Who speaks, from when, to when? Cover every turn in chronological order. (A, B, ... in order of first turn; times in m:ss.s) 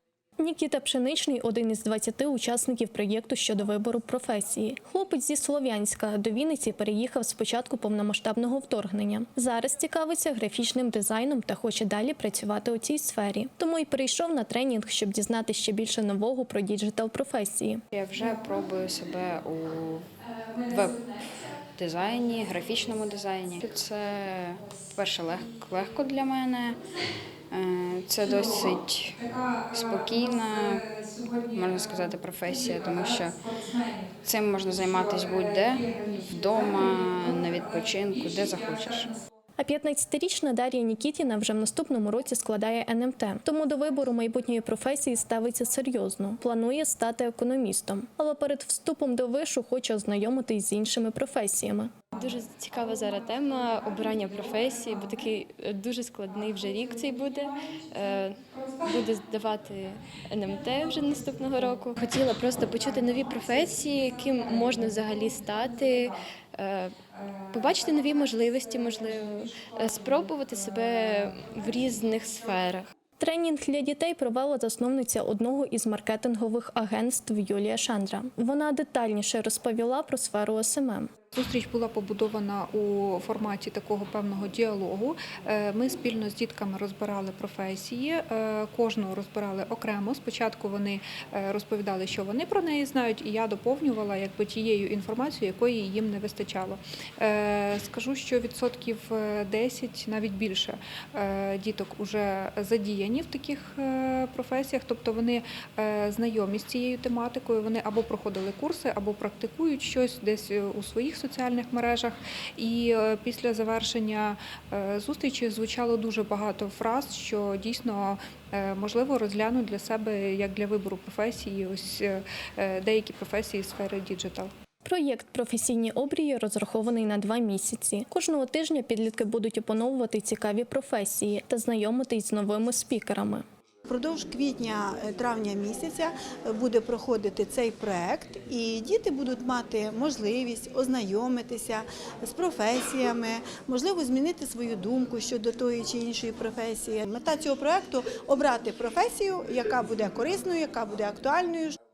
0:00.4-0:17.8 A
0:17.9-0:20.0 B
0:20.7-0:21.0 B
0:21.8-0:26.8 B
0:27.5-0:29.2 B
0:28.2-0:39.2 C
0:29.8-0:30.8 B
0:31.5-0:33.4 B
0:34.2-0:39.1 B
0:39.6-0:52.0 A
0:52.2-1:06.9 D
0:53.2-0:55.3 C
0:56.5-0:58.8 C
1:01.2-1:01.6 C
1:02.5-1:06.2 C
1:07.1-1:12.2 C
1:07.5-1:12.8 D
1:13.2-1:21.1 A
1:21.3-2:04.5 C
2:04.8-2:13.4 A
2:13.8-2:31.8 E